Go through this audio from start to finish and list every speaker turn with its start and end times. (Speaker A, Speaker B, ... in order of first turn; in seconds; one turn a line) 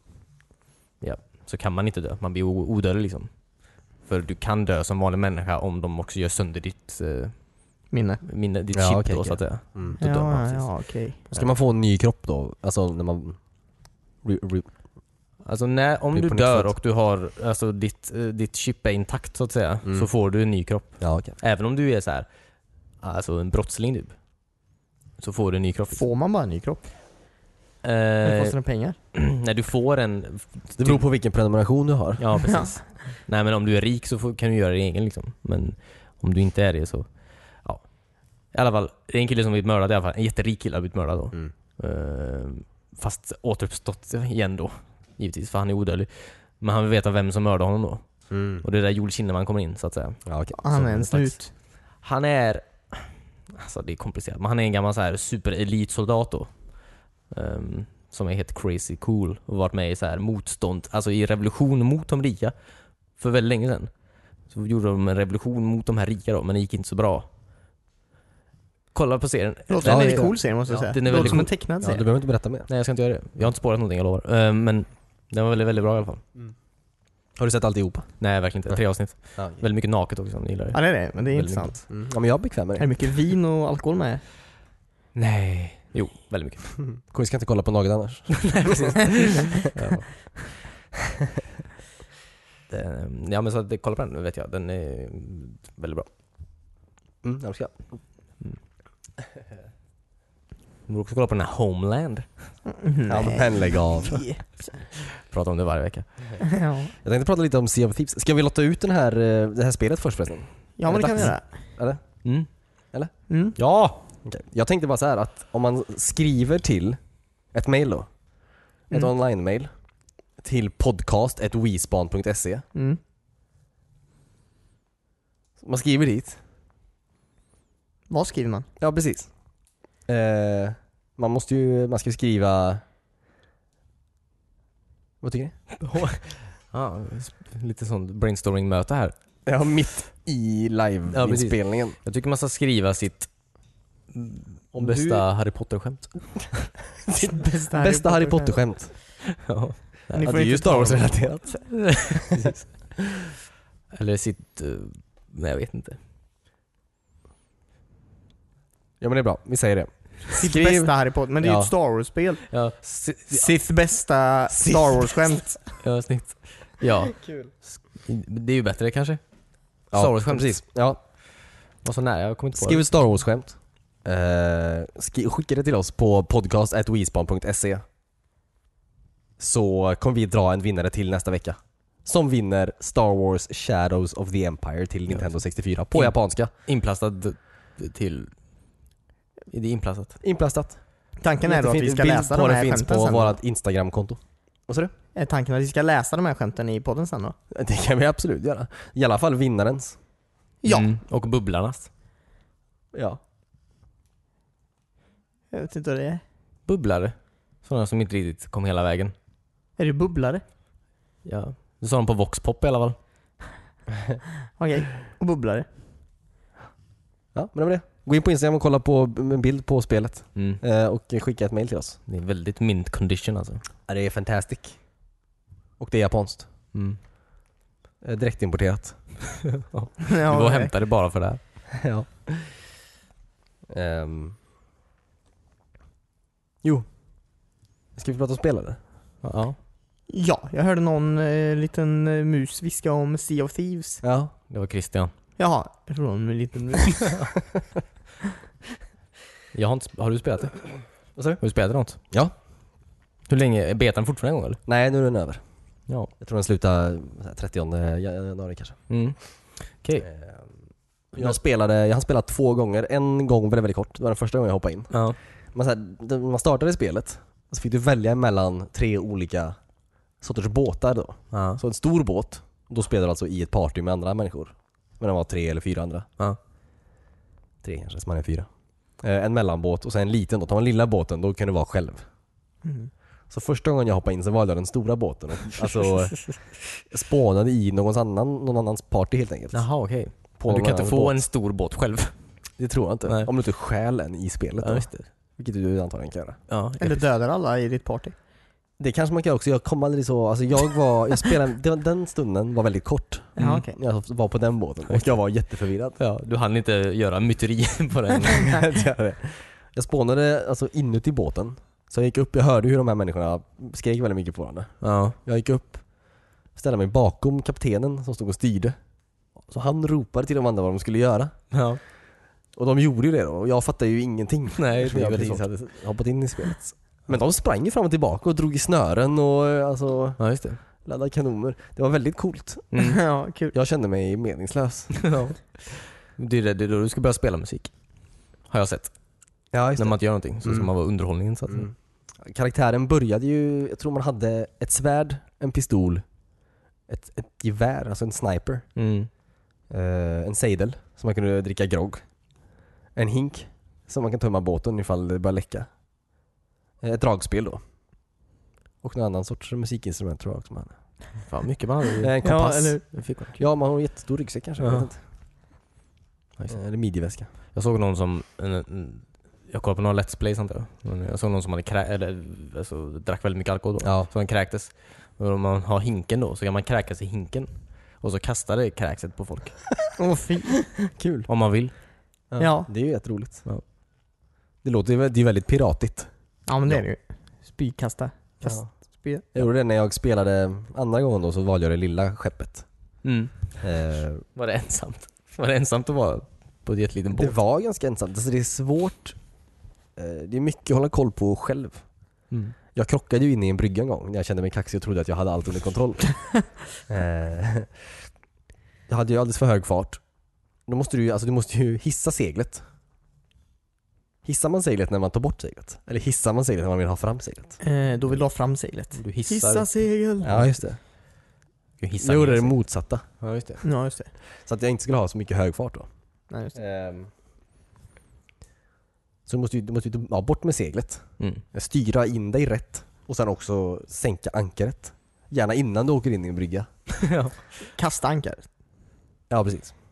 Speaker A: 1.0-11.4
Speaker B: 7.9-8.2
Speaker C: 8.7-10.0
Speaker B: 10.0-11.3
Speaker C: 11.3-13.4
Speaker C: 14.2-14.7
Speaker A: 15.4-22.3
Speaker C: 16.1-16.7
Speaker C: 19.8-20.1
Speaker C: 21.0-21.4
Speaker A: 23.0-24.1
Speaker A: 25.2-26.0
Speaker B: 25.9-26.8
Speaker A: 27.8-28.6
Speaker B: 28.2-28.9
Speaker A: 29.1-31.1
Speaker C: 30.8-32.5
Speaker A: 32.2-37.9
Speaker B: 32.4-32.8
Speaker A: 38.5-56.8
Speaker C: 48.3-48.6
Speaker C: 50.2-50.6
Speaker B: 50.5-51.5
Speaker A: 57.3-62.5
Speaker A: 63.1-63.9
Speaker A: 64.5-67.3
Speaker A: 68.9-71.5
Speaker B: 69.7-72.0
Speaker C: 69.8-72.7
Speaker A: 72.7-76.2
Speaker C: 77.3-78.8
Speaker A: 78.2-81.8
Speaker C: 79.3-79.6
Speaker B: 80.7-81.9
Speaker C: 81.9-82.9
Speaker B: 82.8-84.2
Speaker A: 85.1-86.8
Speaker C: 86.9-89.4
Speaker A: 88.3-90.5
Speaker A: 92.7-96.1
Speaker C: 97.2-97.8
Speaker A: 100.9-102.6
Speaker B: 102.7-104.8
Speaker C: 103.1-104.2
Speaker A: 105.0-106.5
Speaker B: 106.4-106.9
Speaker C: 107.0-112.2
Speaker B: 110.8-111.4
Speaker B: 113.3-113.6
Speaker A: 113.5-114.0
Speaker C: 114.2-118.1
Speaker C: 118.9-119.7
Speaker C: 120.4-122.6
Speaker B: 122.7-123.0
Speaker C: 125.6-126.4
Speaker B: 128.1-128.7
Speaker C: 128.8-129.3
Speaker C: 130.1-132.8
Speaker C: 135.2-135.5
Speaker A: 135.8-139.1
Speaker C: 139.4-142.0
Speaker A: 141.1-143.3
Speaker A: 144.1-146.7
Speaker C: 144.8-145.2
Speaker C: 147.1-148.9
Speaker B: 147.1-148.6
Speaker A: 149.4-150.3
Speaker B: 150.1-151.2
Speaker C: 150.2-152.5
Speaker A: 151.6-152.9
Speaker A: 153.9-156.0
Speaker C: 159.0-161.7
Speaker B: 160.3-162.6
Speaker A: 162.5-163.5
Speaker B: 163.3-165.6
Speaker C: 164.5-165.1
Speaker A: 165.6-167.4
Speaker C: 167.2-167.5
Speaker A: 167.9-169.2
Speaker A: 169.9-170.6
Speaker C: 169.9-171.0
Speaker A: 171.8-172.8
Speaker C: 172.6-177.8
Speaker C: 179.4-186.5
Speaker A: 185.1-188.3
Speaker A: 189.5-190.1
Speaker C: 190.2-190.8
Speaker B: 191.2-193.3
Speaker C: 191.4-194.9
Speaker B: 195.1-197.3
Speaker C: 197.5-200.0
Speaker B: 200.6-200.9
Speaker A: 200.6-201.9
Speaker C: 202.9-203.2
Speaker B: 205.5-206.2
Speaker A: 206.7-209.1
Speaker B: 209.8-210.4
Speaker A: 211.2-213.0
Speaker B: 214.6-215.7
Speaker C: 217.3-222.0
Speaker A: 220.3-220.6
Speaker A: 222.1-223.6
Speaker C: 223.9-224.8
Speaker C: 225.8-226.5
Speaker A: 226.7-227.0
Speaker C: 228.0-229.0
Speaker A: 229.3-231.4
Speaker B: 230.0-230.7
Speaker C: 231.7-232.6
Speaker C: 233.7-234.4
Speaker C: 237.9-238.8
Speaker A: 239.2-239.6
Speaker B: 240.1-244.0
Speaker C: 244.0-244.3
Speaker A: 244.5-245.1
Speaker B: 245.4-247.2
Speaker A: 249.5-250.8
Speaker C: 251.1-251.4
Speaker A: 251.4-252.0
Speaker A: 253.3-254.6
Speaker C: 254.7-255.4
Speaker C: 256.2-258.8
Speaker A: 258.9-260.1
Speaker C: 260.0-260.5
Speaker C: 261.1-265.0
Speaker A: 264.9-265.2
Speaker C: 265.5-269.6
Speaker C: 270.2-276.1
Speaker A: 271.3-271.6
Speaker C: 277.6-278.5
Speaker C: 279.0-282.0
Speaker B: 282.6-282.9
Speaker C: 283.3-289.7
Speaker A: 289.5-292.1
Speaker C: 290.4-291.2
Speaker C: 292.6-296.4
Speaker A: 294.6-295.1
Speaker A: 296.5-297.1
Speaker B: 296.8-298.1
Speaker C: 298.8-306.0
Speaker B: 303.4-303.8
Speaker A: 303.4-303.6
Speaker A: 304.9-305.2
Speaker A: 305.9-308.6
Speaker C: 308.4-315.9
Speaker A: 314.8-315.2
Speaker C: 316.5-318.8
Speaker C: 319.4-321.3
Speaker A: 321.5-321.8
Speaker C: 322.5-330.2
Speaker A: 324.6-325.6
Speaker A: 330.2-330.6
Speaker C: 330.8-332.7
Speaker A: 332.7-333.0
Speaker B: 332.8-333.5
Speaker C: 333.5-335.1
Speaker A: 334.9-337.7
Speaker A: 338.4-338.9
Speaker C: 339.5-340.7
Speaker A: 339.8-341.7
Speaker C: 341.5-346.0
Speaker C: 346.9-348.6
Speaker A: 348.8-349.1
Speaker C: 349.7-352.1
Speaker C: 352.9-355.7
Speaker C: 356.8-357.6
Speaker C: 358.8-360.8
Speaker A: 361.2-363.4
Speaker C: 362.0-365.0
Speaker B: 362.2-362.8
Speaker A: 364.6-364.9
Speaker C: 366.5-367.3
Speaker A: 367.5-379.8
Speaker C: 373.8-374.1
Speaker B: 380.0-380.5
Speaker C: 380.9-381.3
Speaker A: 381.3-381.7
Speaker C: 382.3-383.4
Speaker B: 382.4-382.7
Speaker C: 384.6-386.1
Speaker B: 386.5-389.3
Speaker C: 388.4-388.7
Speaker C: 389.3-392.6
Speaker A: 393.0-393.6
Speaker C: 393.6-394.2
Speaker A: 394.4-397.3
Speaker C: 397.1-399.2
Speaker C: 399.9-401.8
Speaker A: 402.3-402.6
Speaker C: 402.7-408.0
Speaker C: 408.9-410.0
Speaker C: 410.6-412.6
Speaker C: 414.2-417.6
Speaker B: 417.6-420.6
Speaker A: 418.9-419.7
Speaker C: 420.2-420.8
Speaker A: 421.8-423.6
Speaker C: 422.0-423.1
Speaker B: 423.6-424.1
Speaker C: 424.4-425.9
Speaker B: 426.3-426.6
Speaker C: 426.5-427.1
Speaker C: 429.2-436.7
Speaker A: 437.0-437.4
Speaker B: 437.7-438.4
Speaker C: 439.3-439.7